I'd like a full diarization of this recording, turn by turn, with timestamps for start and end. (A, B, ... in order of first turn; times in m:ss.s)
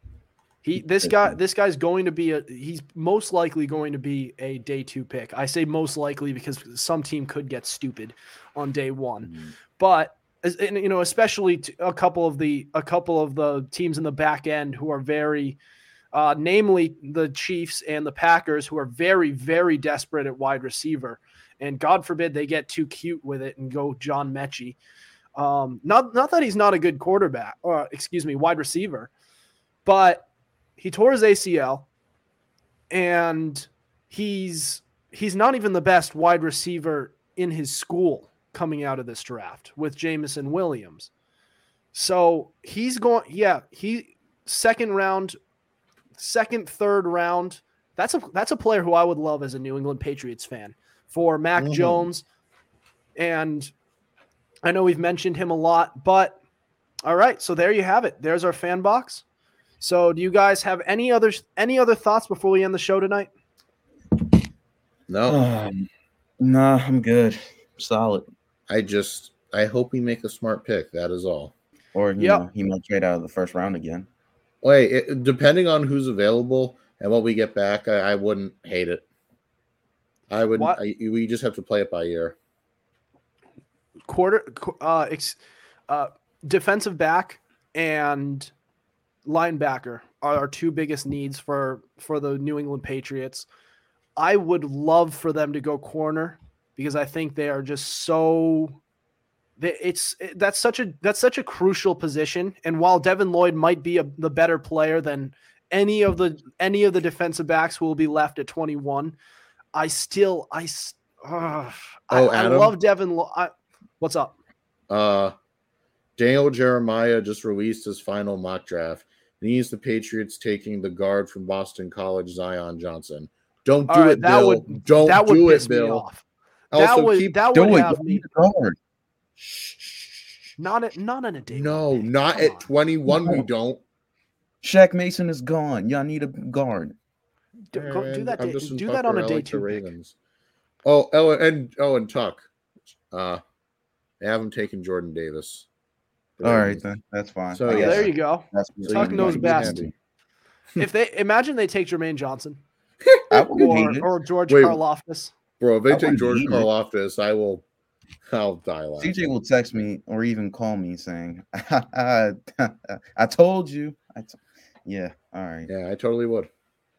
0:00.6-0:15.6 A
0:00.7-0:01.4 B
0:09.2-0:09.5 C
0:16.1-0:24.8 A
0:25.4-0:29.1 A
0:29.8-0:30.3 A
0:30.8-0:31.8 A
0:32.9-0:41.1 A
0:41.9-0:45.4 A
0:46.2-0:52.2 A
0:51.6-0:52.0 C
0:53.2-0:53.7 A
0:54.6-0:56.4 A
0:57.0-0:59.2 A
0:59.8-1:03.3 A
1:05.1-1:05.4 C
1:05.3-1:05.9 B
1:06.4-1:08.3 B
1:08.7-1:11.5 C
1:11.9-1:14.1 B
1:12.2-1:12.4 A
1:14.6-1:19.0 C
1:20.3-1:22.4 C
1:20.5-1:20.8 A
1:24.1-1:28.5 A
1:29.2-1:33.5 A
1:34.2-1:38.8 A
1:39.6-1:49.2 A
1:49.7-1:54.4 A
1:52.1-1:52.7 C
1:54.9-1:55.3 C
1:56.2-2:06.0 C
2:03.9-2:08.2 A
2:06.7-2:07.4 C
2:07.5-2:08.8 B
2:09.4-2:10.6 C
2:10.6-2:12.7 A
2:11.5-2:13.8 C
2:13.1-2:13.4 B
2:14.6-2:17.0 B
2:17.7-2:19.9 A
2:17.7-2:20.1 C
2:20.8-2:22.5 C
2:23.1-2:23.4 C
2:24.2-2:25.7 C
2:26.4-2:26.8 C
2:26.4-2:29.9 B
2:27.5-2:28.1 C
2:27.7-2:29.8 A
2:28.8-2:29.9 C
2:30.8-2:32.6 A
2:33.0-2:33.8 C
2:33.3-2:34.1 B
2:33.5-2:35.3 A
2:34.5-2:34.8 C
2:35.6-2:37.6 C
2:35.9-2:36.7 B
2:38.2-2:39.1 C
2:39.0-2:45.7 B
2:45.7-2:46.5 C